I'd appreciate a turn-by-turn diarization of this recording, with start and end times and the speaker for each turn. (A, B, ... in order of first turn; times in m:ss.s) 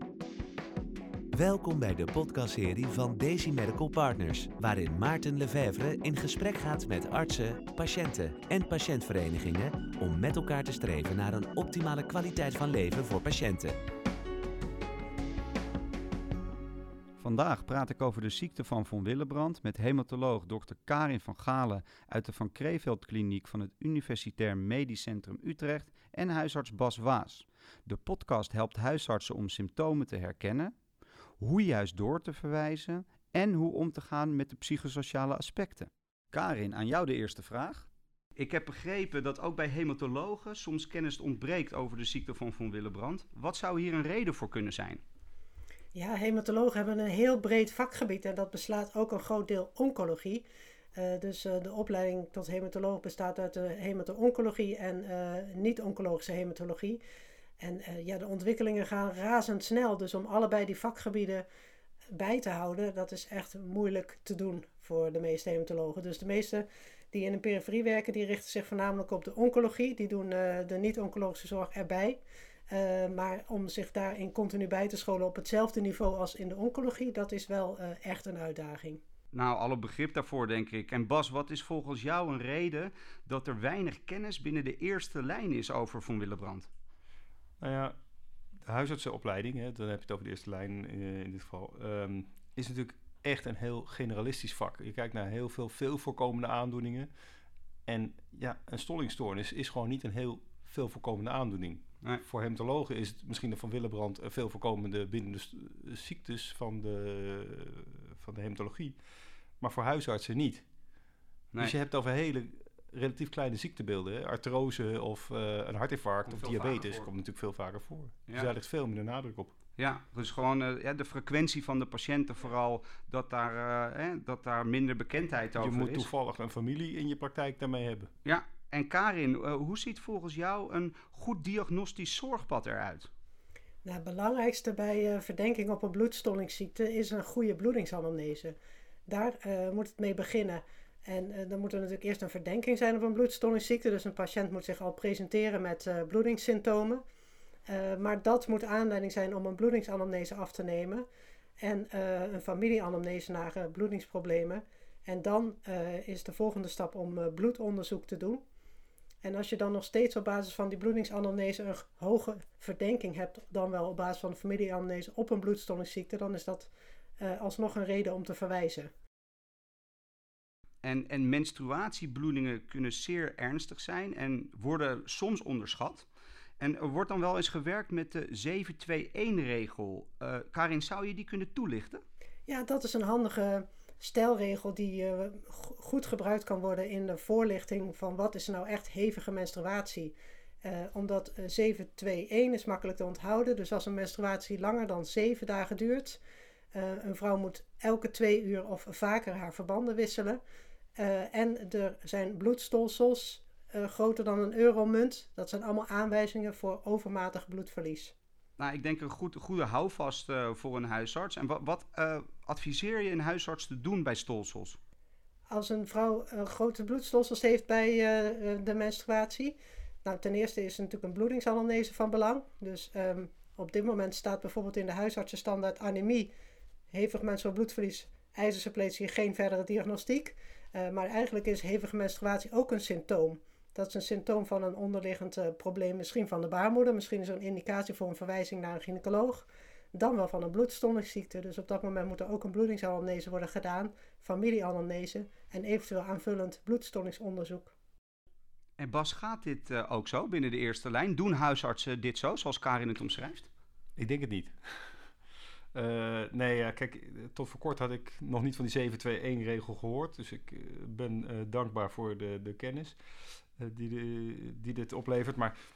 0:01.3-0:13.8 A
0:17.2-0:30.7 B
0:31.4-0:45.0 B
0:45.9-0:50.4 C
0:51.0-0:57.0 C
0:57.6-1:01.5 C
1:02.1-1:19.0 C
1:19.3-1:26.7 B
1:27.6-1:28.0 D
1:28.7-1:37.1 D
1:37.9-1:49.0 D
1:49.6-1:50.6 D
1:51.6-1:59.5 D
1:56.3-1:57.1 B
1:59.8-2:06.1 B
2:05.6-2:08.1 D
2:08.2-2:13.1 B
2:13.8-2:27.0 C
2:27.7-2:31.1 C
2:31.6-2:38.4 C
2:39.2-2:48.9 C
2:50.8-2:56.1 B
2:56.6-3:02.0 B
3:02.5-3:16.2 C
3:16.7-3:20.4 C
3:21.0-3:28.2 C
3:28.6-3:34.8 B
3:35.5-3:46.3 C
3:46.9-4:07.7 C
4:08.8-4:13.5 B
4:14.0-4:14.5 D
4:15.8-4:23.0 D
4:23.6-4:25.6 D